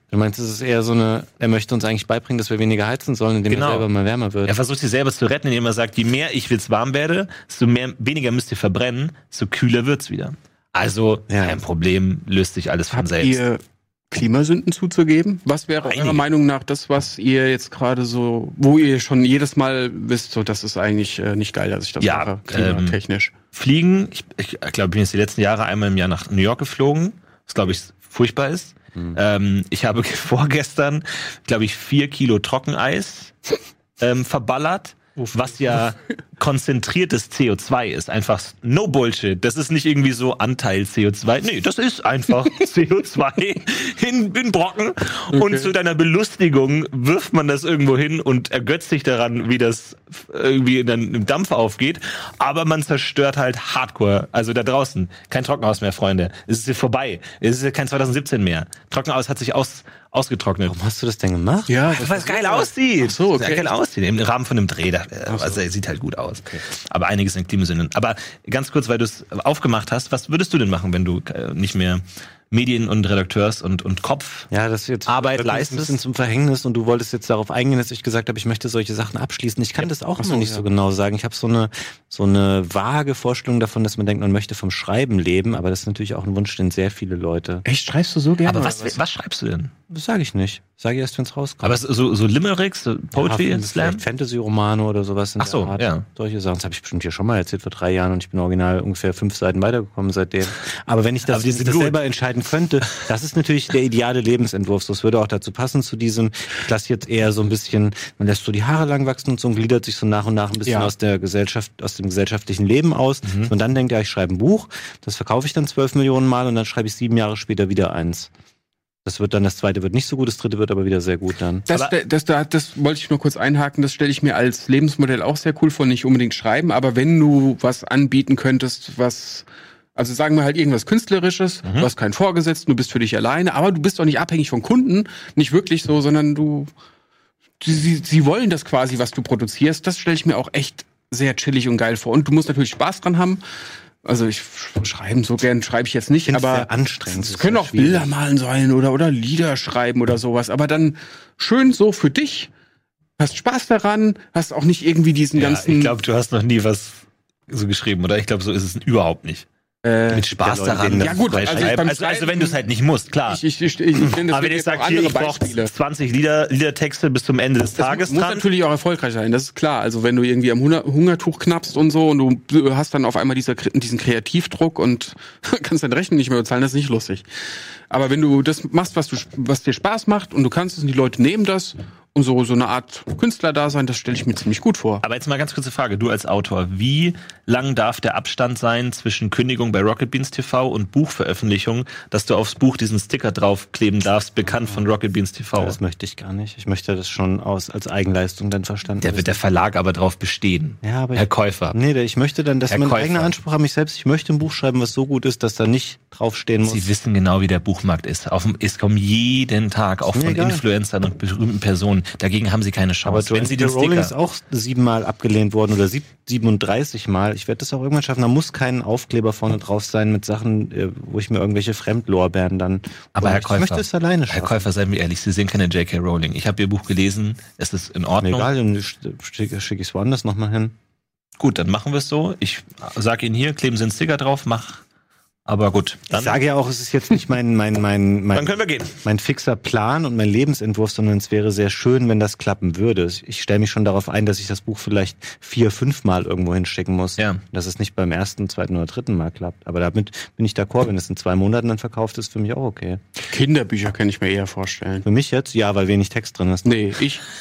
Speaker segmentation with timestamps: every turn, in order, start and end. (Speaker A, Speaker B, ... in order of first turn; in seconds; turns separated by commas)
Speaker A: 0.1-4.5, Speaker B: 3.5-3.9, Speaker B: 4.5-13.4, Speaker A: 11.3-11.6, Speaker C: 12.9-23.3, Speaker B: 15.8-16.2, Speaker B: 22.0-23.0, Speaker B: 23.5-33.3, Speaker B: 34.0-60.7, Speaker C: 45.3-45.7, Speaker A: 60.6-62.1, Speaker C: 61.7-63.7, Speaker B: 61.9-74.5, Speaker C: 65.3-65.6, Speaker A: 74.5-87.6, Speaker B: 75.1-76.0, Speaker C: 80.2-80.6, Speaker C: 87.6-89.0, Speaker B: 88.5-89.7, Speaker A: 89.9-91.8, Speaker B: 91.6-94.0, Speaker A: 93.1-118.3, Speaker B: 95.4-96.0, Speaker B: 101.3-102.0, Speaker B: 113.2-113.5, Speaker A: 119.0-121.7, Speaker C: 121.7-136.7, Speaker C: 137.6-143.4, Speaker C: 144.1-152.5, Speaker A: 146.3-148.1, Speaker C: 153.2-155.9, Speaker B: 155.4-159.4, Speaker C: 159.8-160.3, Speaker B: 160.1-163.4, Speaker A: 160.4-161.8, Speaker C: 160.8-162.6, Speaker C: 163.3-165.7, Speaker B: 164.3-168.4, Speaker C: 167.8-177.2, Speaker C: 177.9-185.0, Speaker B: 185.0-195.8, Speaker A: 195.6-199.4, Speaker B: 199.0-201.8, Speaker A: 200.8-206.9, Speaker B: 202.7-203.3, Speaker B: 206.6-214.1, Speaker A: 210.1-210.6, Speaker A: 213.1-224.7, Speaker B: 223.1-228.5, Speaker A: 228.2-230.7, Speaker B: 231.4-234.8, Speaker B: 235.4-236.4, Speaker A: 236.1-253.0, Speaker B: 238.3-239.0, Speaker C: 253.3-255.1, Speaker A: 255.1-256.9, Speaker C: 256.6-257.2